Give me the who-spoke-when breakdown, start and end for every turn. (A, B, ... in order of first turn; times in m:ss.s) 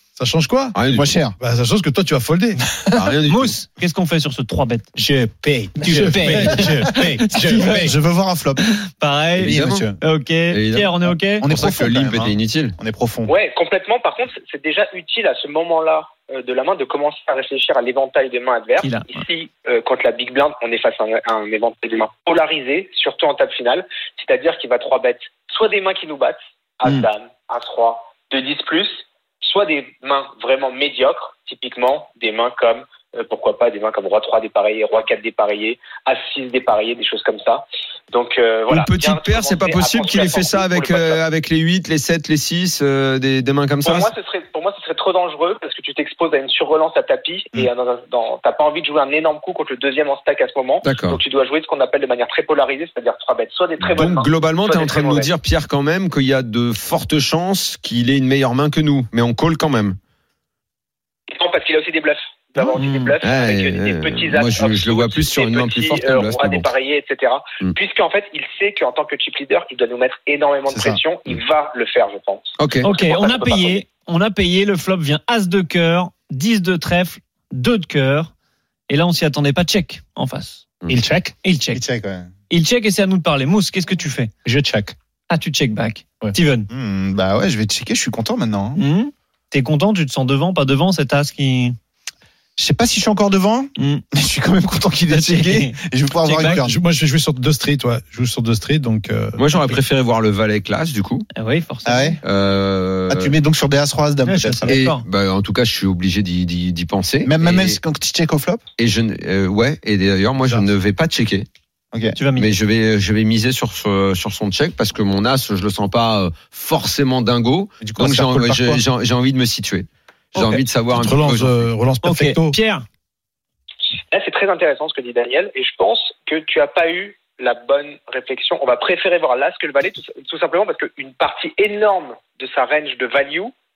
0:00.2-0:00.8 A
0:00.7-0:01.2 B
0:00.9-0:01.4 C
0:01.4-0:02.8 A
0:02.9-0:03.6 B
0:03.3-0:04.9 D
0:04.9-0:08.0 E
0:05.9-0:08.6 C
0:05.9-0:06.7 A
0:07.0-0:07.9 D
0:08.6-0:11.4 D
0:09.4-0:10.0 C
0:09.4-0:09.9 B
0:10.5-0:12.8 B
0:11.4-0:13.3 C
0:13.2-0:41.2 F
0:18.8-0:19.2 D
0:38.7-0:44.1 B
0:43.8-0:55.3 F
0:50.8-0:51.2 B
0:53.8-1:00.0 B
1:01.3-1:13.8 F
1:02.7-1:03.1 D
1:03.2-1:06.7 B
1:10.7-1:11.0 C
1:12.6-1:12.9 B
1:12.8-1:18.3 D
1:18.9-1:20.6 D
1:20.9-1:21.3 E
1:21.4-1:21.8 D
1:21.7-1:22.3 C
1:22.5-1:24.3 D
1:24.4-1:24.9 E
1:25.3-1:26.7 D
1:26.7-1:28.8 C
1:28.8-1:31.8 D
1:32.6-1:36.8 C
1:33.8-1:34.0 D
1:35.1-1:36.6 D
1:36.5-1:39.4 A
1:39.4-1:41.3 B
1:41.3-1:42.2 D
1:41.8-1:42.2 C
1:42.2-1:43.3 B
1:43.1-1:44.8 C
1:44.2-1:45.0 D
1:44.7-1:47.8 B
1:47.2-1:48.6 C
1:48.8-1:51.5 B
1:52.2-1:52.6 D
1:52.4-2:01.7 B
1:57.8-1:58.8 C
2:00.3-2:02.6 A
2:02.0-2:02.9 D
2:04.1-2:13.5 F